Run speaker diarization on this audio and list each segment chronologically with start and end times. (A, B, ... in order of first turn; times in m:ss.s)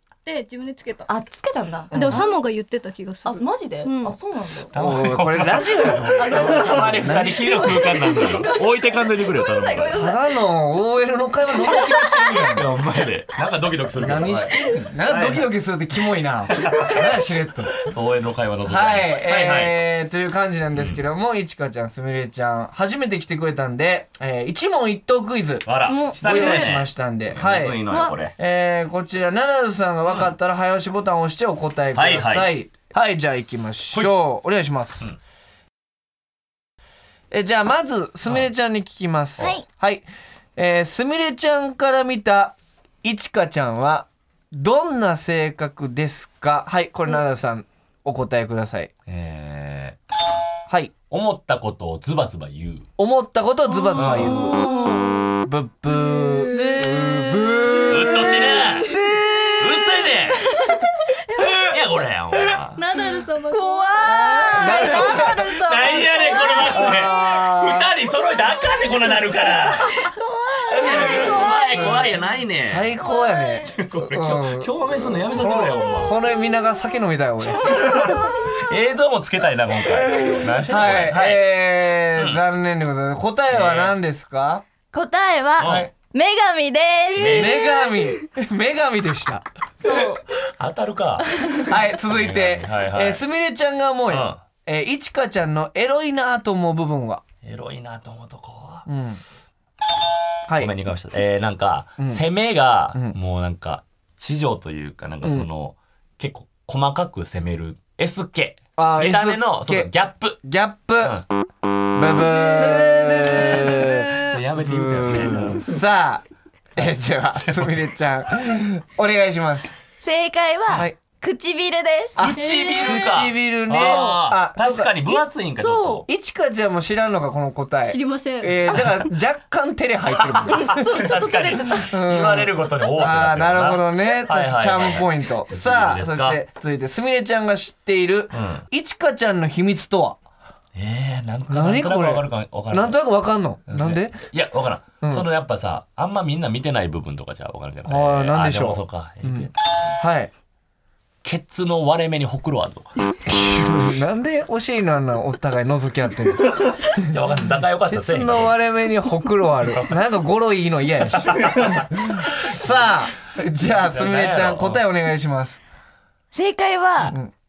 0:00.2-0:01.1 A
0:01.1-0:02.3 B
0:01.9-0:02.3 C
0:01.9-0:04.2 A
0:03.3-0:04.7 B
0:04.7-0:10.1 D
0:04.7-0:08.0 C
0:06.2-0:10.2 B
0:07.6-0:09.1 A
0:09.9-0:12.7 C
0:12.5-0:15.5 D
0:14.0-0:17.8 C
0:16.5-0:17.1 D
0:17.8-0:19.8 D
0:18.7-0:35.1 C
0:25.6-0:28.4 D
0:25.9-0:26.7 B
0:27.9-0:28.2 B
0:31.9-0:32.5 D
0:37.3-0:48.9 C
0:39.4-0:39.6 B
0:49.1-0:50.0 D
0:51.1-0:52.9 D
0:53.0-0:54.6 C
0:53.8-0:55.1 B
0:54.0-0:54.4 D
0:54.4-0:55.0 A
0:55.4-0:59.3 C
0:56.2-0:57.8 A
0:56.5-0:59.8 B
0:57.9-0:58.9 D
0:58.8-0:59.1 A
0:59.6-1:00.4 D
1:01.3-1:01.7 A
1:01.6-1:02.8 D
1:02.8-1:05.2 A
1:02.8-1:07.0 B
1:04.5-1:05.5 C
1:05.2-1:10.1 D
1:06.7-1:07.9 C
1:10.3-1:11.5 A
1:10.5-1:12.0 B
1:10.7-1:12.9 D
1:11.8-1:12.1 C
1:12.7-1:18.3 C
1:13.1-1:13.5 B
1:13.7-1:16.2 D
1:17.6-1:21.5 D
1:20.0-1:24.6 C
1:22.2-1:22.4 D
1:23.5-1:24.0 D
1:24.9-1:27.6 B
1:25.6-1:25.9 D
1:25.6-1:25.9 C
1:27.2-1:27.6 D
1:27.2-1:30.1 C
1:29.8-1:30.1 B
1:30.4-1:33.2 D
1:31.6-1:37.2 C
1:34.1-1:34.4 D
1:37.4-1:38.9 D
1:38.9-1:39.2 C
1:40.5-1:40.7 C
1:40.6-1:50.4 D
1:48.8-1:49.9 C
1:50.4-1:51.2 C
1:52.0-1:56.2 C
1:52.8-1:53.6 B
1:53.6-1:55.7 D
1:56.8-1:59.7 C
1:56.8-1:57.8 D
2:00.0-2:02.8 B
2:00.7-2:01.0 C
2:02.2-2:05.0 C
2:02.2-2:06.1 D
2:02.4-2:03.0 A
2:03.8-2:04.2 B
2:05.1-2:06.0 B
2:06.1-2:10.8 C
2:07.9-2:08.7 A
2:08.7-2:09.0 D
2:10.2-2:16.4 D
2:10.6-2:11.9 B
2:11.8-2:20.2 C
2:18.3-2:18.6 D
2:20.8-2:23.0 D
2:21.5-2:24.2 C
2:23.7-2:29.5 D
2:25.0-2:25.3 C
2:27.8-2:30.3 C
2:31.2-2:32.9 D
2:33.3-2:37.2 C
2:36.5-2:38.6 D
2:37.9-2:45.6 C
2:39.7-2:39.9 D
2:41.2-2:42.5 D
2:43.8-2:44.8 D
2:46.3-2:47.2 B